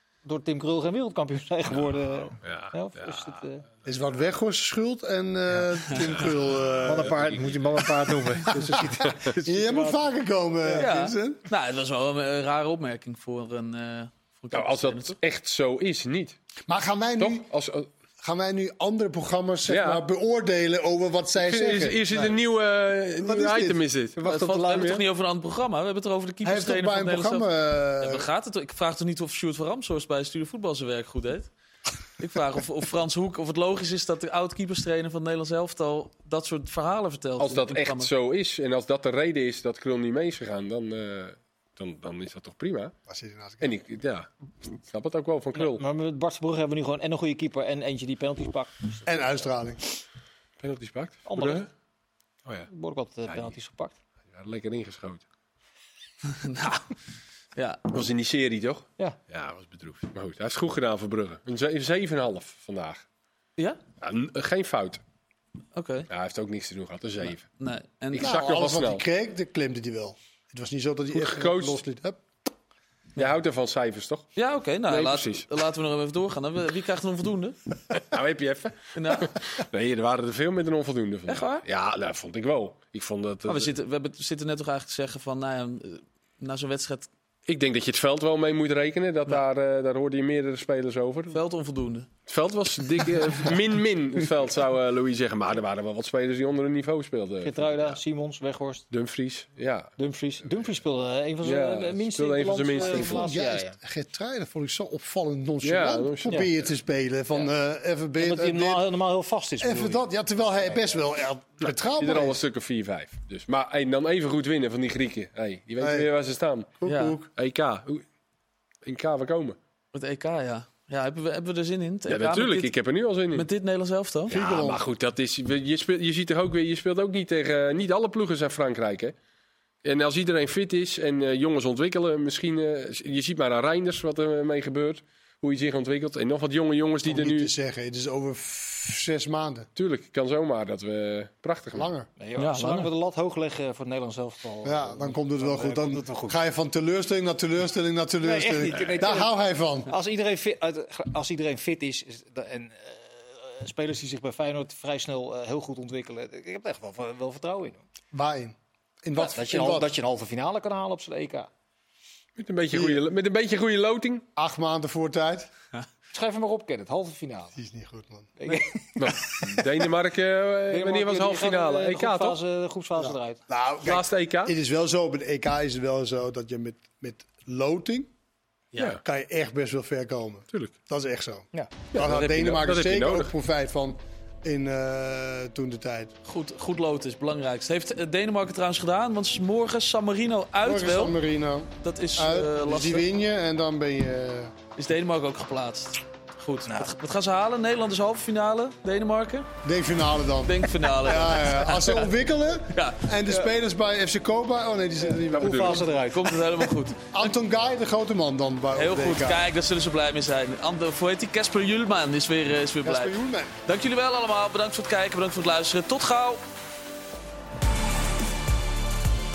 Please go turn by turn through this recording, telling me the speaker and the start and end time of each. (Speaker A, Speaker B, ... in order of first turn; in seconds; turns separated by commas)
Speaker A: 0.2-3.6, Speaker B: 2.4-3.3, Speaker C: 3.8-7.2, Speaker A: 6.8-10.0, Speaker C: 8.1-11.5, Speaker A: 10.7-10.9, Speaker D: 10.8-15.2, Speaker B: 14.5-16.4, Speaker C: 16.7-17.5, Speaker B: 17.2-17.9, Speaker C: 18.2-22.0, Speaker B: 19.6-20.0, Speaker B: 21.4-25.0, Speaker C: 23.2-23.8, Speaker A: 24.2-24.9, Speaker D: 24.2-27.4, Speaker C: 26.4-28.3, Speaker D: 28.0-31.5, Speaker D: 32.1-38.1, Speaker B: 37.4-42.9, Speaker C: 43.1-43.7, Speaker B: 43.6-45.8, Speaker A: 45.5-49.1, Speaker C: 49.0-49.8, Speaker B: 50.6-51.7, Speaker A: 51.3-51.7, Speaker A: 52.7-53.9, Speaker B: 53.3-53.5, Speaker B: 54.3-55.2, Speaker D: 56.3-56.9, Speaker D: 57.5-57.8, Speaker B: 57.9-63.0, Speaker B: 64.0-65.0, Speaker D: 65.7-66.1, Speaker B: 66.1-67.4, Speaker D: 67.6-68.4, Speaker B: 68.1-69.0, Speaker C: 68.2-72.2, Speaker B: 71.1-71.8, Speaker B: 73.2-74.3, Speaker D: 74.4-77.6, Speaker B: 74.9-75.5, Speaker B: 77.9-83.7, Speaker D: 78.9-79.3, Speaker D: 81.3-81.6, Speaker D: 83.5-87.1, Speaker B: 87.5-91.4, Speaker D: 91.3-92.1, Speaker B: 92.3-98.0, Speaker A: 97.4-98.8, Speaker B: 98.9-99.9, Speaker A: 100.0-103.7, Speaker B: 101.4-103.3, Speaker C: 102.8-108.8, Speaker B: 105.6-106.6, Speaker A: 108.2-110.0, Speaker C: 109.6-112.4, Speaker B: 112.0-116.7, Speaker C: 115.8-116.1, Speaker C: 116.8-117.3, Speaker D: 116.8-117.2, Speaker B: 117.4-118.0, Speaker B: 118.8-119.6, Speaker D: 119.9-122.7, Speaker B: 122.1-123.5, Speaker D: 123.3-124.3, Speaker C: 124.3-124.8, Speaker B: 124.3-129.1, Speaker B: 129.8-137.5, Speaker C: 137.0-139.7, Speaker B: 139.8-141.9, Speaker C: 141.7-142.1, Speaker A: 142.2-146.4, Speaker D: 142.4-142.9, Speaker C: 144.6-149.9, Speaker A: 148.2-149.3, Speaker A: 149.9-157.8, Speaker C: 158.1-159.9, Speaker A: 159.2-161.5, Speaker B: 162.4-164.2, Speaker C: 162.7-163.0, Speaker C: 164.4-165.5, Speaker A: 166.1-167.6, Speaker C: 167.6-169.6, Speaker A: 168.4-168.9, Speaker B: 169.0-172.4, Speaker A: 170.7-173.4, Speaker C: 173.0-178.1, Speaker B: 173.8-174.5, Speaker C: 179.0-186.1, Speaker B: 181.9-183.3, Speaker D: 186.3-191.2, Speaker C: 190.6-194.5, Speaker D: 191.8-193.1, Speaker D: 194.8-199.5, Speaker C: 199.6-205.9, Speaker D: 200.4-202.1, Speaker D: 202.7-203.0, Speaker A: 205.1-206.4, Speaker B: 205.3-205.9, Speaker D: 206.1-207.0, Speaker C: 207.1-209.4, Speaker D: 208.7-216.4, Speaker C: 212.8-213.6